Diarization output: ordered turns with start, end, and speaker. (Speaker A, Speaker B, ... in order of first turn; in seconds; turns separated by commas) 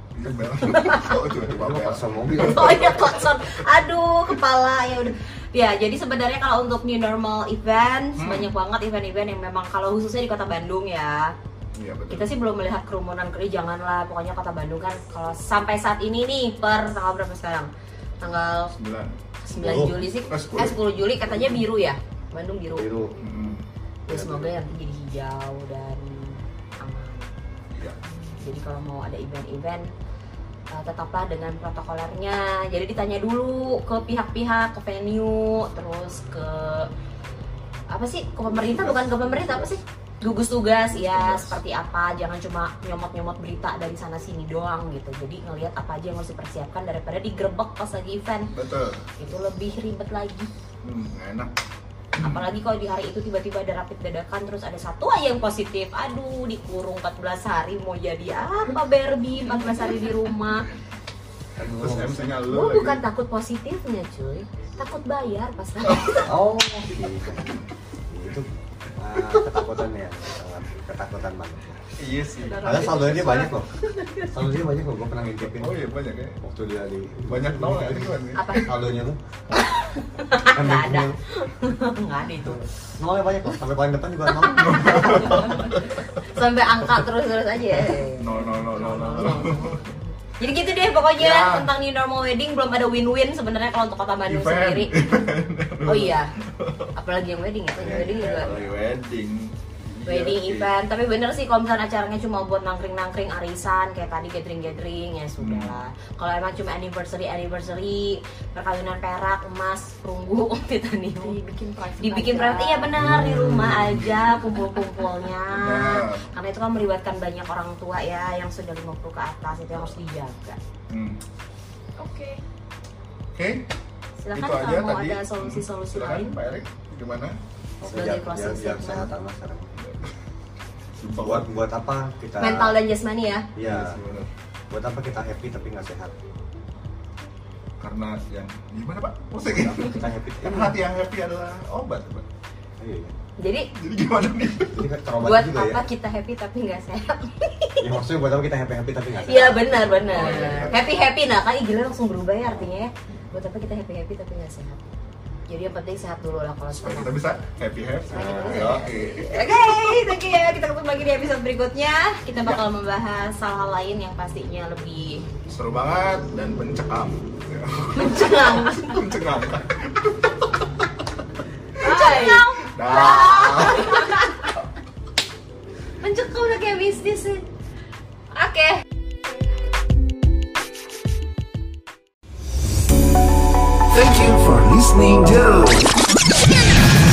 Speaker A: 0.1-3.1, Speaker B: 0.6-1.2, Speaker C: 1.5-3.1, Speaker B: 2.3-11.3, Speaker A: 8.2-8.5, Speaker A: 11.7-12.3, Speaker B: 12.1-17.7, Speaker B: 18.2-18.7, Speaker A: 18.7-19.2, Speaker B: 19.4-22.9, Speaker C: 19.5-20.1, Speaker A: 20.2-20.8, Speaker C: 22.8-23.2, Speaker A: 23.2-23.6, Speaker B: 24.1-27.3, Speaker C: 24.1-24.6, Speaker A: 27.7-28.0, Speaker B: 28.4-29.9, Speaker B: 30.7-36.9, Speaker B: 37.9-48.5, Speaker C: 38.4-39.7, Speaker A: 40.9-41.5, Speaker A: 48.5-49.0, Speaker B: 49.2-50.5, Speaker A: 50.8-51.5, Speaker B: 52.2-60.7, Speaker A: 52.2-52.4, Speaker C: 61.6-62.3, Speaker A: 61.7-63.0, Speaker B: 62.5-66.3, Speaker C: 66.2-67.5, Speaker C: 68.1-71.9, Speaker A: 72.0-72.7, Speaker D: 72.3-74.3, Speaker C: 72.6-73.7, Speaker C: 74.2-75.8, Speaker A: 75.4-76.4, Speaker C: 76.4-79.7, Speaker A: 77.3-78.8, Speaker B: 78.3-78.7, Speaker B: 79.5-82.7, Speaker C: 80.5-81.2, Speaker C: 82.4-85.8, Speaker B: 84.3-95.1, Speaker A: 84.6-86.0, Speaker A: 88.2-89.8, Speaker A: 91.2-91.7, Speaker A: 94.3-96.9, Speaker B: 95.9-96.3, Speaker B: 97.0-98.5, Speaker C: 97.8-98.7, Speaker A: 98.0-100.7, Speaker B: 100.1-111.4, Speaker A: 105.4-105.8, Speaker D: 111.2-113.1, Speaker B: 112.0-120.6, Speaker C: 113.0-114.0, Speaker A: 115.5-116.3, Speaker A: 120.9-121.2, Speaker D: 122.0-122.4, Speaker A: 123.3-123.7, Speaker B: 124.2-126.4, Speaker A: 124.3-127.4, Speaker C: 127.8-129.8, Speaker B: 127.8-129.1, Speaker A: 129.8-130.1, Speaker A: 131.0-131.5, Speaker C: 131.2-132.8, Speaker B: 132.4-133.5, Speaker C: 133.6-134.0, Speaker A: 133.6-134.3, Speaker C: 134.7-136.1, Speaker A: 137.8-142.2, Speaker C: 139.5-140.8, Speaker C: 142.8-143.1, Speaker B: 143.4-143.7, Speaker A: 143.7-144.9, Speaker C: 144.7-145.8, Speaker B: 145.2-147.9, Speaker C: 147.8-150.8, Speaker B: 149.2-154.9, Speaker A: 150.1-150.8, Speaker C: 152.4-152.7, Speaker B: 155.5-157.2, Speaker A: 156.7-159.5, Speaker B: 158.1-165.3, Speaker C: 158.1-158.8, Speaker A: 162.4-162.6, Speaker A: 165.5-170.4, Speaker B: 168.0-169.0, Speaker B: 171.8-174.5, Speaker A: 171.8-174.1, Speaker B: 176.0-177.4, Speaker B: 178.3-178.8, Speaker E: 183.9-185.9